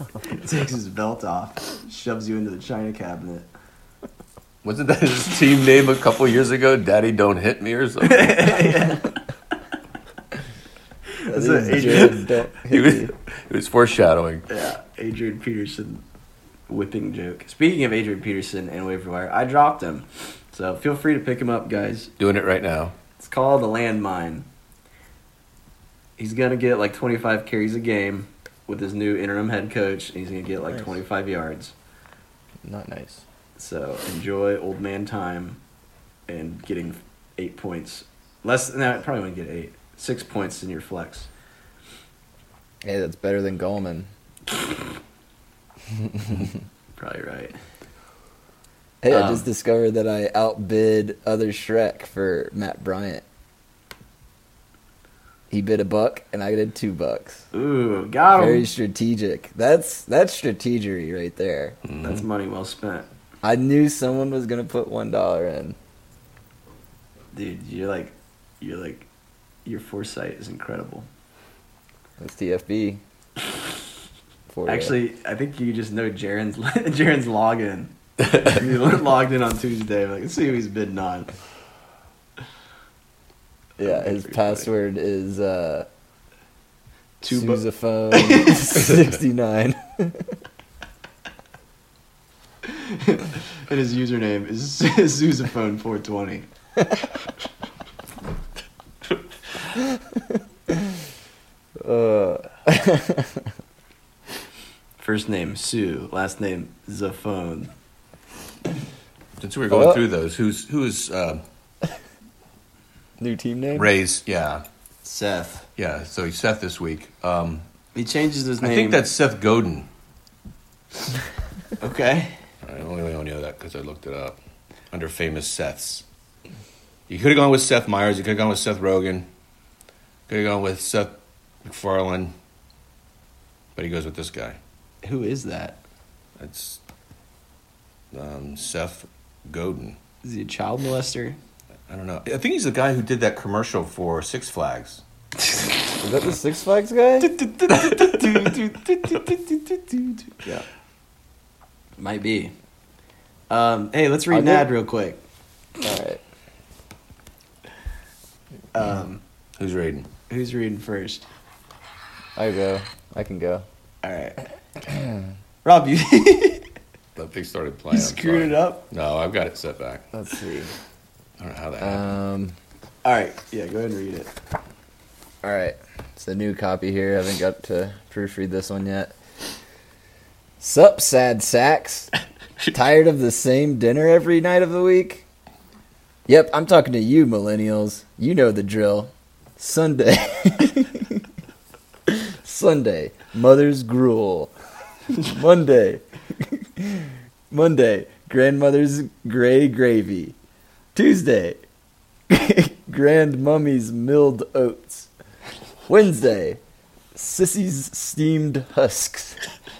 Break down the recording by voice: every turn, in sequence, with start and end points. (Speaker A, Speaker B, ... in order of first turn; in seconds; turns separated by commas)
Speaker A: 0.2-3.5, Speaker B: 4.6-8.9, Speaker A: 8.0-9.1, Speaker A: 11.2-12.2, Speaker C: 11.3-13.1, Speaker B: 12.7-14.5, Speaker A: 14.5-16.0, Speaker A: 16.7-22.1, Speaker B: 22.2-22.9, Speaker A: 23.2-24.4, Speaker A: 26.2-31.7, Speaker C: 32.6-33.2, Speaker A: 33.6-35.6, Speaker A: 36.3-41.3, Speaker C: 42.8-44.1, Speaker C: 46.0-46.4, Speaker A: 47.0-47.5, Speaker C: 49.0-53.2, Speaker A: 49.1-49.4, Speaker C: 55.5-57.5, Speaker A: 57.5-58.7, Speaker C: 58.3-61.8, Speaker B: 61.8-62.2, Speaker A: 62.0-63.1, Speaker C: 63.4-65.8, Speaker A: 67.3-69.1, Speaker A: 69.6-71.1, Speaker C: 72.2-73.0, Speaker C: 74.5-75.0, Speaker A: 74.7-81.3, Speaker C: 83.8-85.9, Speaker A: 83.8-84.7, Speaker A: 87.2-88.8, Speaker C: 87.3-90.4, Speaker A: 92.6-96.5, Speaker C: 99.8-100.9, Speaker C: 101.8-103.5, Speaker A: 105.0-107.7, Speaker B: 109.4-111.4, Speaker C: 109.7-110.0, Speaker C: 113.2-113.9, Speaker B: 113.7-114.6, Speaker A: 115.0-115.7, Speaker B: 115.8-117.6, Speaker A: 117.9-119.0, Speaker B: 118.6-119.9, Speaker A: 121.8-122.4, Speaker B: 122.6-124.4, Speaker B: 124.9-126.0, Speaker B: 127.1-129.3, Speaker B: 130.3-132.3, Speaker B: 133.8-134.6, Speaker A: 135.0-135.8, Speaker B: 136.4-136.8, Speaker B: 138.1-140.0, Speaker A: 140.2-141.4, Speaker B: 141.9-145.0, Speaker C: 146.0-147.3, Speaker A: 147.2-150.7, Speaker B: 147.8-148.4, Speaker A: 152.0-152.5, Speaker A: 153.5-155.2, Speaker C: 154.3-154.7, Speaker C: 155.8-156.2, Speaker A: 158.7-159.2, Speaker B: 159.6-160.1, Speaker A: 160.3-161.2, Speaker C: 162.3-163.7, Speaker A: 164.0-164.4, Speaker A: 165.6-166.7, Speaker B: 167.2-170.1, Speaker A: 167.9-168.8, Speaker C: 170.1-170.7, Speaker B: 171.4-172.1, Speaker C: 171.8-172.6, Speaker A: 173.0-174.3, Speaker C: 175.4-179.2, Speaker C: 180.6-182.1, Speaker C: 182.7-185.2, Speaker C: 186.3-191.2, Speaker C: 192.1-194.5, Speaker C: 195.1-200.3, Speaker C: 200.9-201.6, Speaker C: 202.3-205.1, Speaker C: 205.8-206.6, Speaker C: 207.1-209.4